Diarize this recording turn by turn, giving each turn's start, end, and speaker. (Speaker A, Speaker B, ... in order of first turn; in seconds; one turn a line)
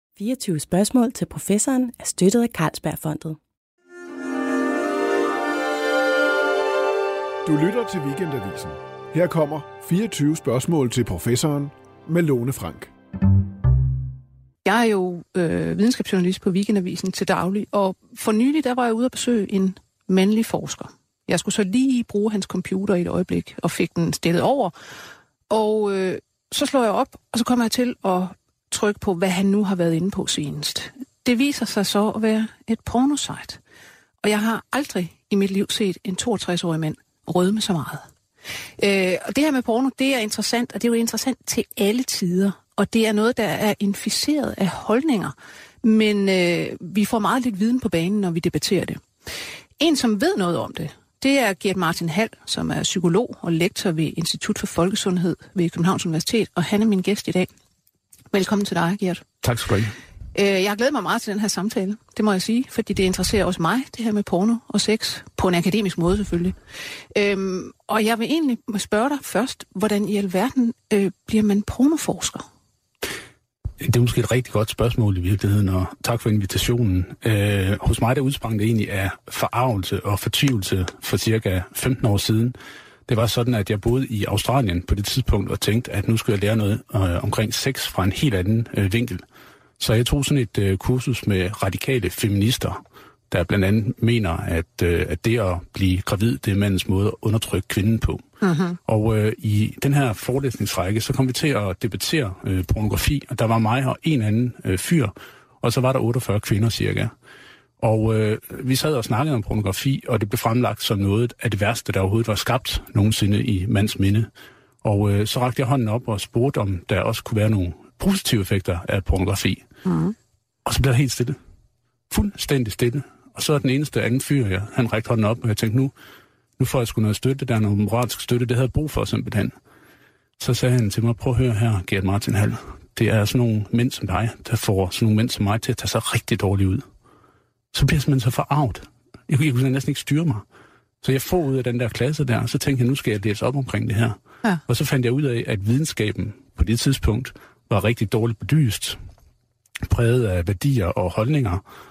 Speaker A: 0.2-3.4
Speaker B: 7.5-12.9
Speaker C: 14.7-24.7
Speaker C: 25.5-33.6
Speaker C: 34.2-38.1
Speaker C: 38.8-49.0
Speaker C: 49.8-57.5
Speaker C: 58.3-59.2
Speaker D: 59.4-60.0
Speaker C: 60.4-66.5
Speaker C: 67.2-72.4
Speaker D: 73.8-82.6
Speaker D: 83.1-89.2
Speaker D: 89.8-98.2
Speaker C: 98.4-98.8
Speaker D: 98.8-107.1
Speaker D: 107.8-114.3
Speaker D: 114.8-119.7
Speaker C: 119.8-120.2
Speaker D: 120.7-121.4
Speaker D: 122.1-125.9
Speaker D: 126.6-129.5
Speaker D: 130.4-136.8
Speaker D: 137.7-140.4
Speaker D: 141.0-149.0
Speaker D: 149.8-151.6